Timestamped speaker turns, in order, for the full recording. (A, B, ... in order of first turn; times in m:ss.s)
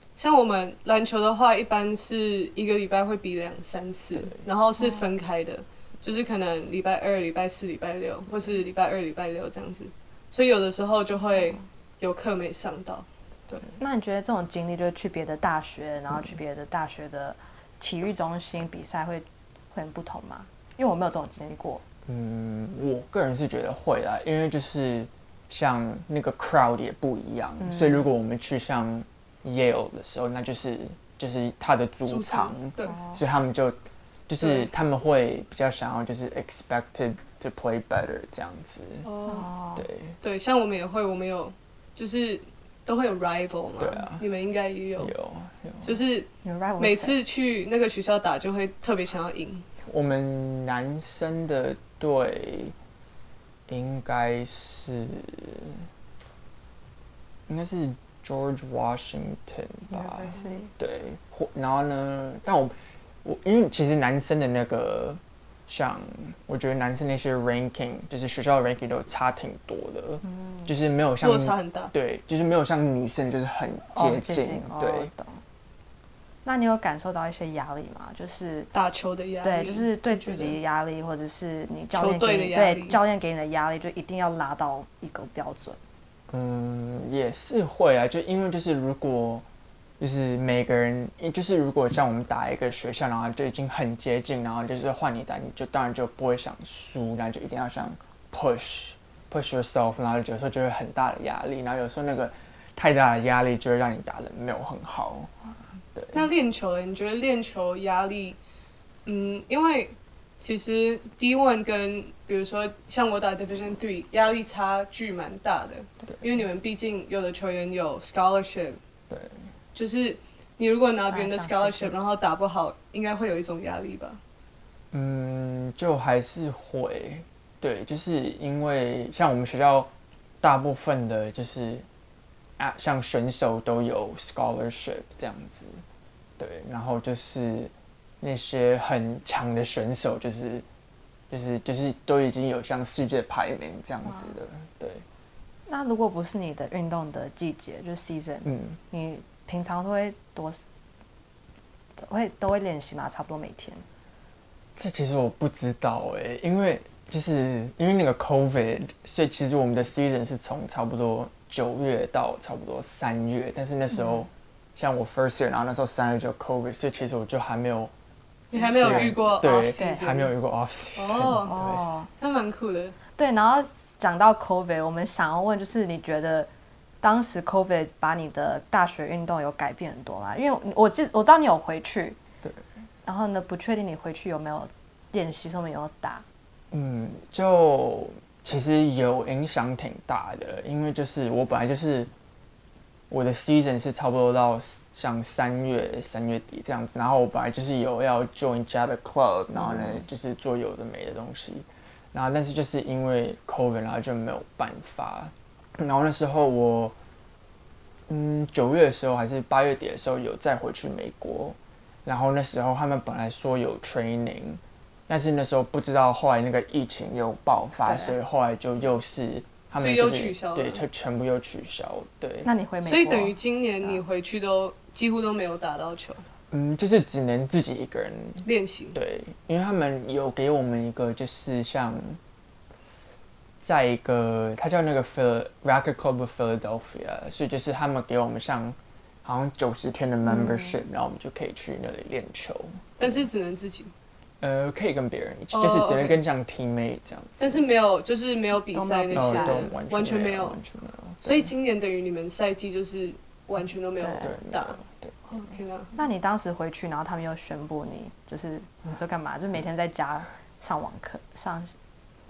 0:00.2-0:13.7 A
0:13.8-0:21.8 B
0:22.1-0:39.1 C
0:27.6-0:28.0 B
0:32.1-0:33.0 A
0:32.9-0:33.2 B
0:34.4-0:34.7 A
0:39.0-0:39.5 A
0:39.2-0:39.9 B
0:39.8-0:40.2 C
0:40.2-0:45.1 A
0:43.8-0:44.2 C
0:45.0-0:46.0 C
0:45.8-0:49.7 A
0:46.4-0:47.2 B
0:49.9-0:52.8 C
0:53.7-0:55.9 C
0:57.5-1:15.1 C
0:59.9-1:00.7 B
1:10.2-1:10.7 B
1:11.2-1:11.9 A
1:13.9-1:15.4 B
1:16.4-1:18.7 B
1:18.7-1:20.6 A
1:19.4-1:25.8 B
1:21.9-1:23.0 A
1:26.3-1:29.4 C
1:30.0-1:45.3 C
1:45.9-1:46.3 C
1:46.1-1:48.4 A
1:49.0-1:58.8 A
1:59.1-1:59.5 C
1:59.7-2:04.2 A
2:01.1-2:01.9 B
2:04.9-2:09.9 C
2:10.4-2:11.9 C
2:12.6-2:15.8 C
2:16.4-2:20.6 C
2:21.3-2:25.0 C
2:24.0-2:24.3 B
2:25.7-2:30.6 B
2:28.4-2:28.8 C
2:32.0-2:33.8 B
2:34.8-2:47.9 C
2:43.9-2:44.3 B
2:48.5-2:50.3 A
2:48.5-2:51.8 C
2:48.7-2:50.0 B
2:51.0-2:51.6 A
2:51.5-2:52.1 B
2:52.2-2:53.0 A
2:53.2-2:56.5 B
2:57.0-3:02.2 B
3:03.0-3:06.2 B
3:06.7-3:12.1 C
3:13.1-3:26.9 C
3:19.5-3:20.0 B
3:28.1-3:42.5 C
3:37.9-3:38.1 B
3:39.8-3:40.8 A
3:42.4-3:44.0 B
3:42.8-3:46.2 A
3:46.5-3:52.2 C
3:48.4-3:49.0 A
3:53.6-4:03.3 C
4:00.2-4:00.8 B
4:03.0-4:03.9 A
4:04.4-4:07.6 C
4:05.5-4:06.2 A
4:07.4-4:10.6 A
4:08.7-4:09.7 B
4:09.1-4:11.5 C
4:11.2-4:15.9 A
4:14.0-4:14.4 B
4:14.2-4:15.2 C
4:16.0-4:21.7 B